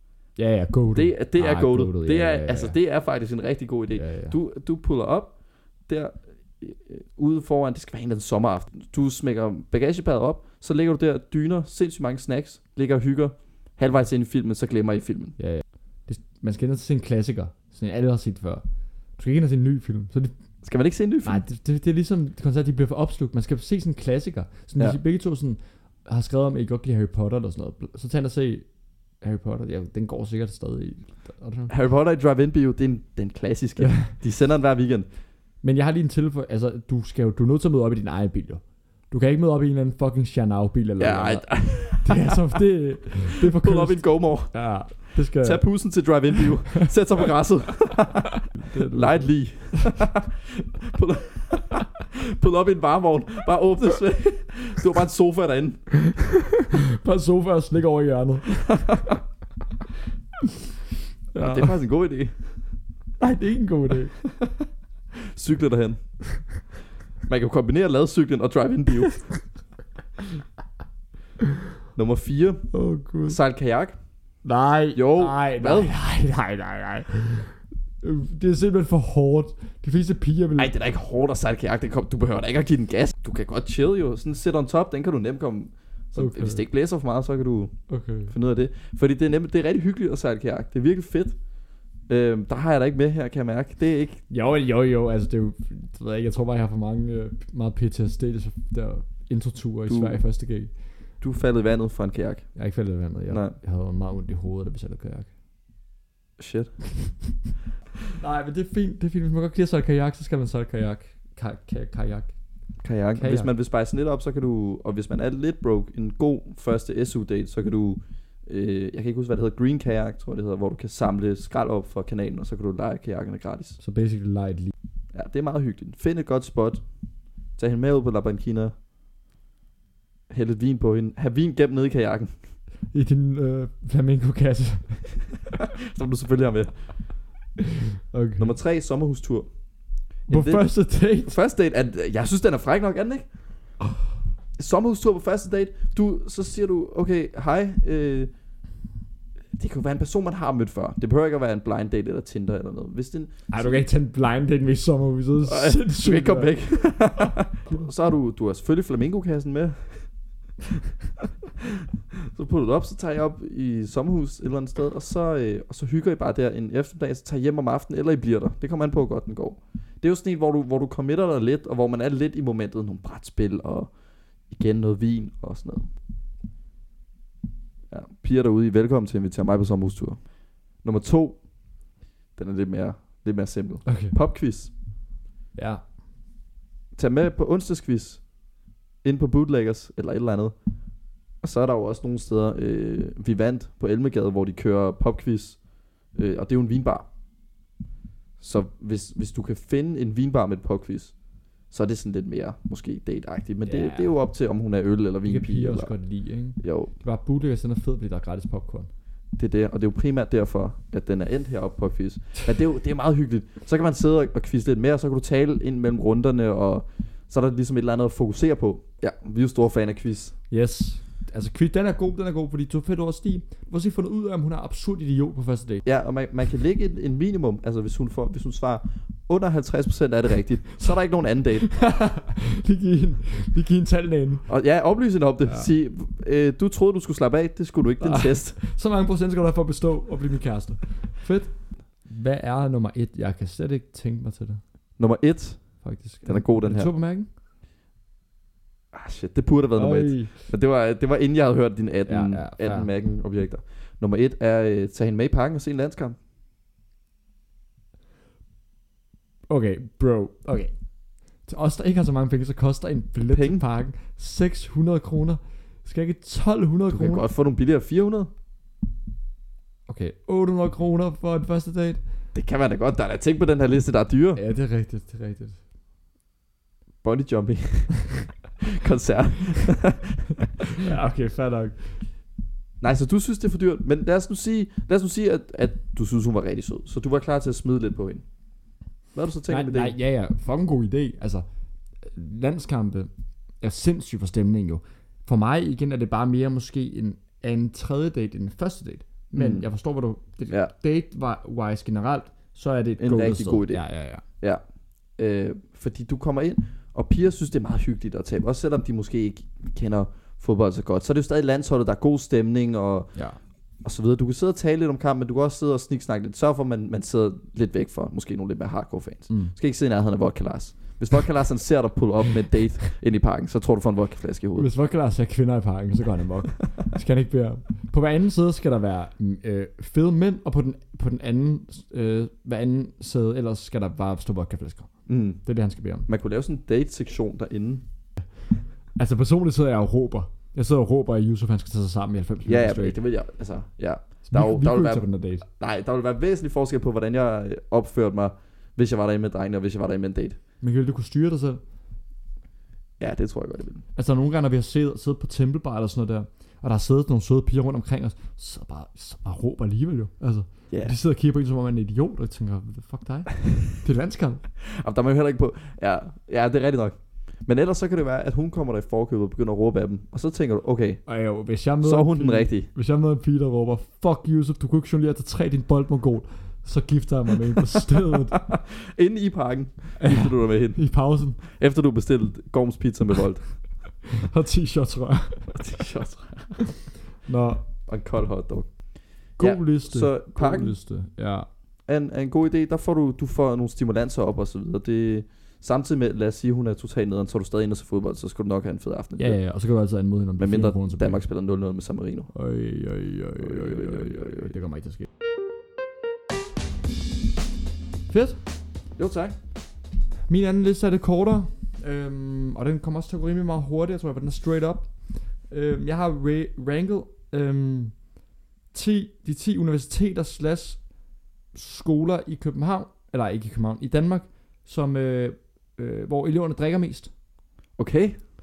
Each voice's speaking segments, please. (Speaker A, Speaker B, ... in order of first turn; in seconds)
Speaker A: 0.4-2.8, 3.9-4.4, 15.4-18.6, 19.2-20.4, 21.2-28.6, 29.2-31.7, 33.8-34.1, 35.6-45.7, 48.5-49.9, 56.1-58.8, 61.3-61.8, 63.2-64.2, 72.7-73.4, 74.4-80.7, 86.1-86.6, 87.9-88.3, 94.3-100.8, 102.5-105.3, 108.1-112.4, 113.2-113.5, 123.8-124.7, 132.9-135.2, 138.1-138.5, 140.3-141.4, 153.5-156.6, 183.9-184.1, 185.6-185.8, 203.6-204.1, 205.3-208.9, 220.5-225.8, 231.6-234.5, 238.0-244.6, 245.8-247.3, 249.8-250.4, 252.1-252.9, 259.5-260.7, 261.5-267.2, 269.9-272.0, 274.4-275.6, 280.8-282.1, 289.5-291.5, 292.0-293.1, 293.6-304.2, 324.6-336.1, 338.9-343.0, 344.2-345.4, 350.6-351.6, 354.0-364.4, 371.1-378.4, 380.0-381.4, 384.1-385.6, 387.2-387.6, 389.4-391.5, 399.2-401.2, 402.3-405.1, 408.1-408.4, 410.3-418.0, 418.7-420.8, 421.5-427.1
Speaker B: 0.9-15.4, 20.6-21.4, 31.7-35.1, 41.0-42.5, 43.5-56.0, 58.9-59.2, 61.4-62.6, 65.2-66.0, 67.3-69.3, 72.0-72.7, 73.3-74.0, 74.9-75.9, 80.6-87.8, 88.3-91.4, 92.1-94.2, 99.9-100.2, 101.2-102.6, 103.3-103.6, 106.4-106.8, 112.8-123.8, 125.1-126.8, 127.6-128.7, 130.3-132.3, 135.9-136.8, 138.4-139.5, 140.2-143.3, 144.6-148.3, 149.6-153.8, 155.4-160.1, 162.3-173.9, 174.5-175.9, 177.9-180.3, 180.8-181.4, 182.4-184.7, 187.0-188.2, 189.0-190.6, 191.4-195.6, 196.1-197.1, 198.4-201.2, 201.7-205.9, 206.6-206.9, 209.4-220.3, 225.8-231.7, 234.5-238.6, 245.0-246.9, 248.9-256.2, 263.3-263.6, 266.9-268.3, 272.4-274.4, 277.0-280.5, 282.8-288.2, 289.1-289.9, 299.4-299.7, 303.0-303.8, 305.1-313.1, 313.8-324.7, 335.1-335.4, 336.1-337.8, 342.4-350.4, 353.0-353.8, 360.7-360.9, 364.6-371.0, 371.8-372.7, 378.3-383.5, 385.5-386.6, 387.9-390.8, 391.9-399.4, 400.4-402.3, 403.4-404.5, 409.0-409.4, 427.8-428.2